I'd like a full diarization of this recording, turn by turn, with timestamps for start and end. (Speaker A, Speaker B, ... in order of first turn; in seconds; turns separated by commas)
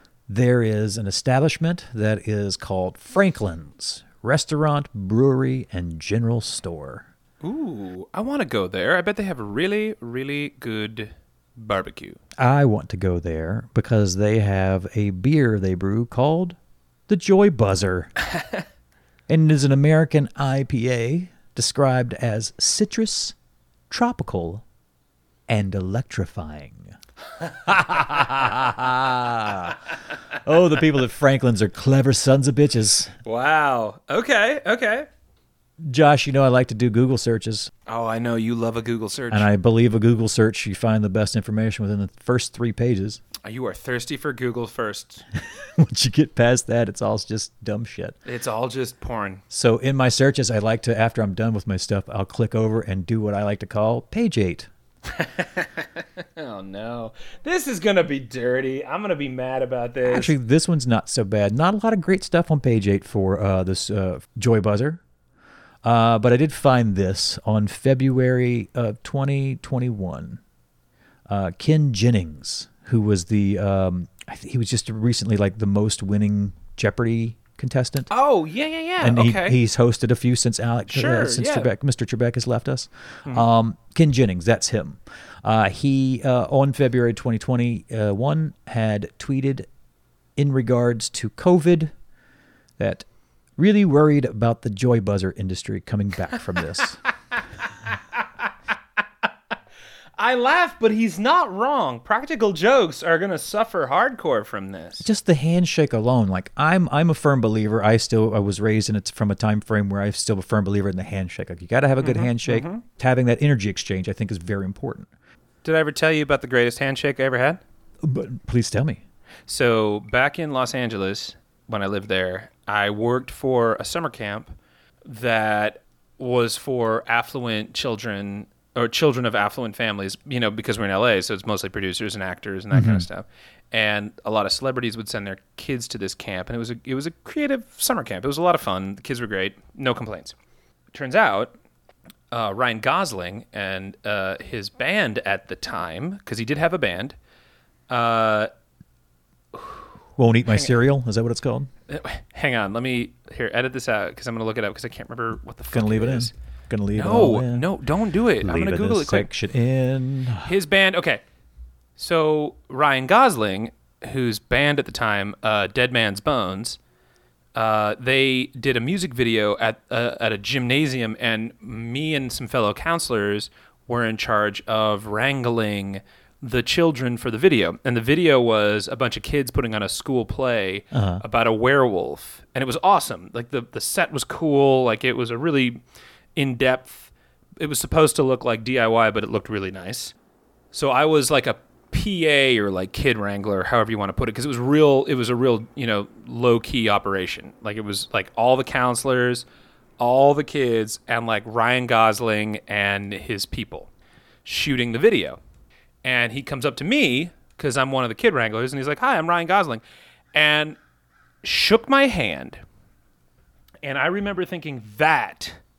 Speaker A: 0.3-7.0, Speaker B: 7.4-12.2, Speaker A: 12.4-16.6, Speaker A: 17.1-18.1, Speaker A: 19.3-23.3, Speaker A: 23.9-24.6, Speaker A: 25.5-29.8, Speaker A: 30.4-33.1, Speaker B: 33.2-35.1, Speaker A: 35.8-37.7, Speaker B: 37.9-39.5, Speaker A: 39.3-43.2, Speaker B: 43.4-45.2, Speaker A: 45.8-48.2, Speaker B: 48.2-49.4, Speaker A: 49.5-54.7, Speaker B: 55.1-60.3, Speaker A: 60.0-65.0, Speaker A: 65.8-70.4, Speaker A: 71.3-78.1, Speaker B: 78.1-79.6, Speaker A: 79.0-89.7, Speaker B: 80.9-81.7, Speaker A: 90.4-91.9, Speaker A: 92.8-93.0, Speaker A: 93.6-97.0, Speaker B: 100.2-105.1, Speaker A: 105.0-115.1, Speaker B: 112.0-112.8, Speaker B: 115.6-117.6, Speaker A: 118.0-119.0, Speaker B: 119.5-140.3, Speaker A: 132.7-133.0, Speaker B: 140.9-141.5, Speaker B: 142.3-147.2, Speaker B: 147.9-148.5, Speaker A: 150.2-151.7, Speaker B: 151.9-156.3, Speaker A: 155.7-157.7, Speaker B: 156.9-159.3, Speaker A: 158.4-160.5, Speaker B: 160.4-161.2, Speaker B: 162.0-166.8, Speaker B: 167.5-185.8, Speaker A: 180.9-181.2, Speaker B: 186.3-190.1, Speaker B: 190.7-199.4, Speaker B: 200.0-203.9, Speaker B: 204.4-205.4, Speaker B: 206.0-209.8, Speaker B: 210.3-210.8, Speaker B: 211.4-212.6, Speaker B: 213.8-215.6